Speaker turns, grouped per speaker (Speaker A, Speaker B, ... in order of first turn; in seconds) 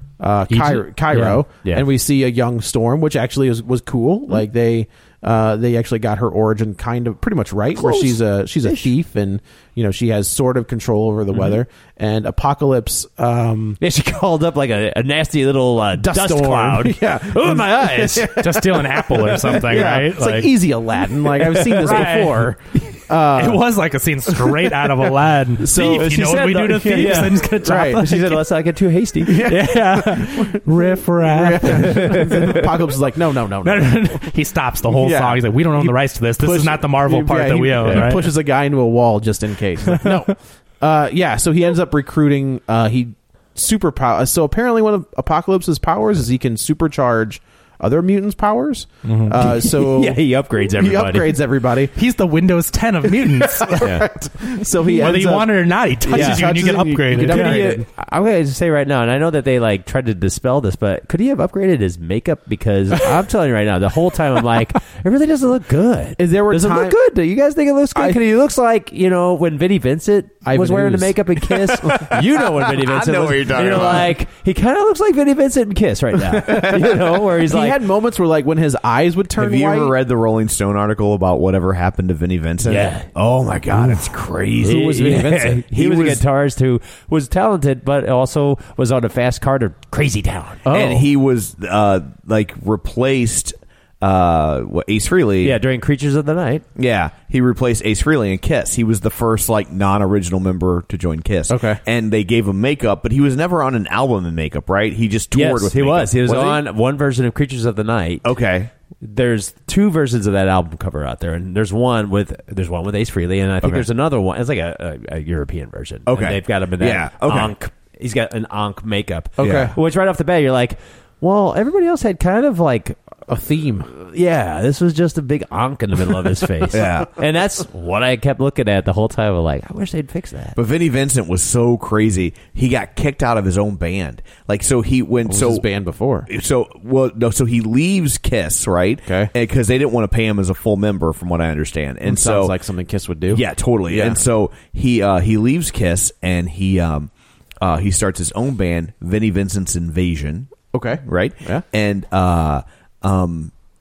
Speaker A: 0.2-13.8, 15.9-23.7, 24.3-25.0, 25.6-28.1, 29.2-34.1, 35.0-50.2, 50.8-51.9, 53.2-57.9, 66.2-67.0, 70.4-72.2, 73.7-74.0, 76.5-79.9, 84.7-85.6, 90.6-91.0, 101.5-101.8, 119.4-119.8, 123.3-123.9, 135.3-136.3, 142.0-144.2, 150.7-151.6
Speaker B: 0.5-1.3, 18.4-20.5, 21.8-22.5, 23.3-28.5, 29.4-32.6, 33.6-38.3, 49.0-49.4, 51.9-54.1, 54.9-57.8
Speaker C: 1.1-1.9, 7.8-8.9, 11.3-11.6, 13.8-18.4, 21.3-22.2, 25.8-29.5, 31.6-32.7, 37.8-38.1, 49.4-51.4, 53.8-54.0, 56.1-56.6, 57.1-77.8, 82.6-83.1, 83.7-90.6, 95.4-96.6, 105.3-108.3, 109.0-123.0, 123.9-130.6
Speaker D: 72.7-74.1, 76.4-77.0, 79.4-86.2, 90.7-95.6, 96.8-106.6, 108.2-108.7, 113.6-113.9, 116.1-117.5, 119.4-119.8, 126.7-127.1, 130.5-135.7, 136.3-142.6, 143.3-150.5, 151.0-153.5